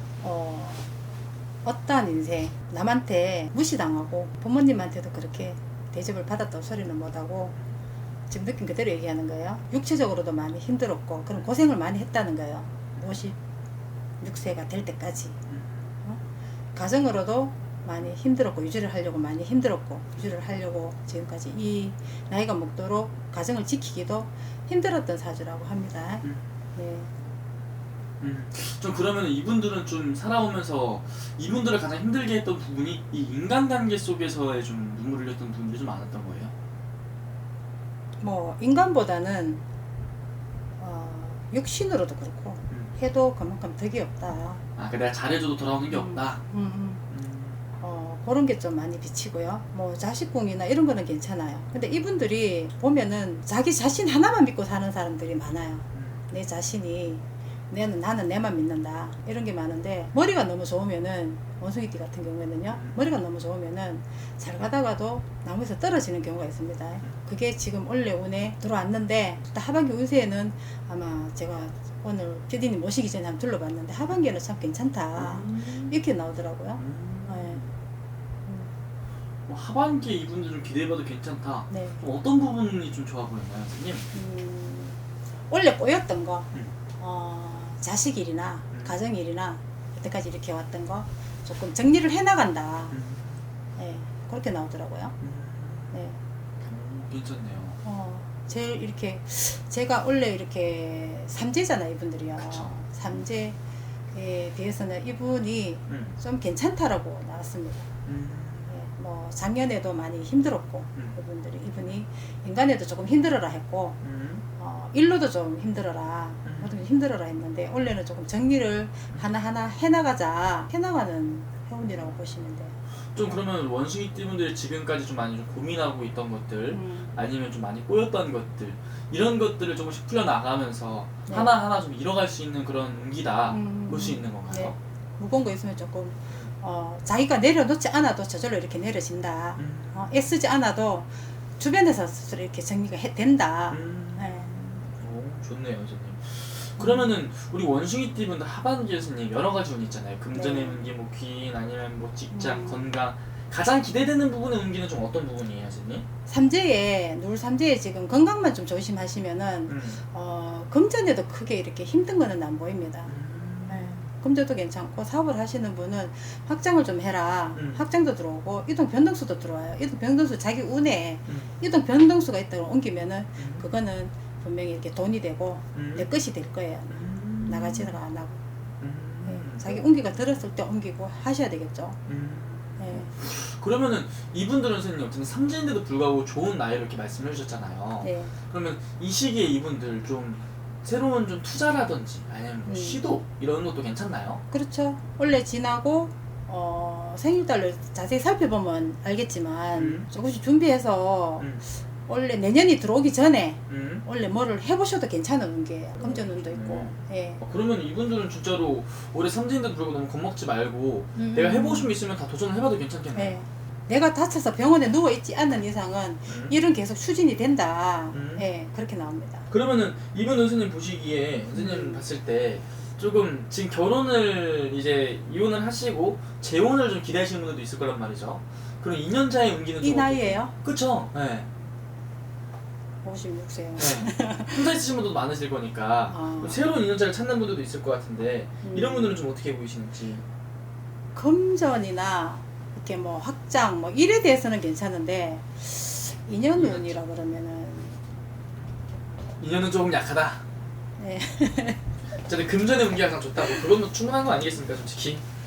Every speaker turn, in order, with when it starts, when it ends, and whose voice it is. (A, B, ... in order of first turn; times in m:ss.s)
0:00.2-0:00.9 A
0:01.6-0:07.6 A
0:08.3-0:13.4 A
0:14.2-0:15.4 A
0:15.5-0:15.9 B
0:16.7-0:26.2 A
0:26.8-0:27.1 A
0:28.2-0:36.5 B
0:38.2-0:39.6 A
0:40.8-0:44.6 A
0:44.8-0:46.4 B
0:45.9-0:47.0 A
0:47.1-0:47.6 B
0:47.8-1:17.6 A
0:55.9-0:56.2 B
1:02.7-1:03.0 B
1:15.2-1:16.0 B
1:16.8-1:17.6 B
1:19.5-1:24.1 B
1:21.7-1:22.0 A
1:24.1-1:25.0 A
1:25.5-1:33.0 A
1:32.9-1:33.4 B
1:33.8-1:35.2 A
1:35.2-1:36.0 B
1:35.9-1:36.2 A
1:36.6-1:37.8 B
1:37.8-1:43.6 A
1:42.3-1:42.7 B
1:44.1-1:47.9 A
1:45.9-1:46.2 B
1:48.0-1:48.7 B
1:48.7-1:54.0 A
1:54.0-1:54.4 B
1:54.6-2:02.7 A
1:56.4-1:56.8 B
2:03.1-2:14.8 B
2:06.7-2:07.1 A
2:11.3-2:11.6 A
2:13.5-2:24.5 A
2:19.6-2:20.2 B
2:23.7-2:36.0 B
2:26.8-2:27.1 A
2:30.3-2:30.8 A
2:32.3-2:32.9 A
2:36.3-2:43.1 A
2:39.7-2:40.0 B
2:43.0-2:44.0 B
2:43.7-2:58.4 A
2:47.5-2:47.8 B
2:53.4-2:53.7 B
2:55.7-2:56.1 B
2:56.9-2:58.0 B
2:58.8-2:59.9 B
2:59.2-3:02.0 A
3:02.1-3:14.4 B
3:02.8-3:03.1 A
3:08.0-3:08.3 A
3:12.6-3:13.0 A
3:14.5-3:21.5 A
3:19.7-3:20.1 B
3:22.0-3:27.4 A
3:23.7-3:24.0 B
3:26.0-3:33.4 B
3:31.2-3:31.9 A
3:33.1-3:39.5 A
3:36.3-3:36.6 B
3:38.1-3:38.4 B
3:39.5-3:51.5 B
3:41.5-3:42.0 A
3:49.8-3:50.5 A
3:53.0-3:54.6 A
3:53.8-4:00.2 B
3:56.1-3:56.6 A
3:58.6-3:59.2 A
4:01.1-4:08.0 A
4:06.6-4:06.9 B
4:09.4-4:10.4 B
4:11.0-4:11.8 A
4:12.2-4:15.2 B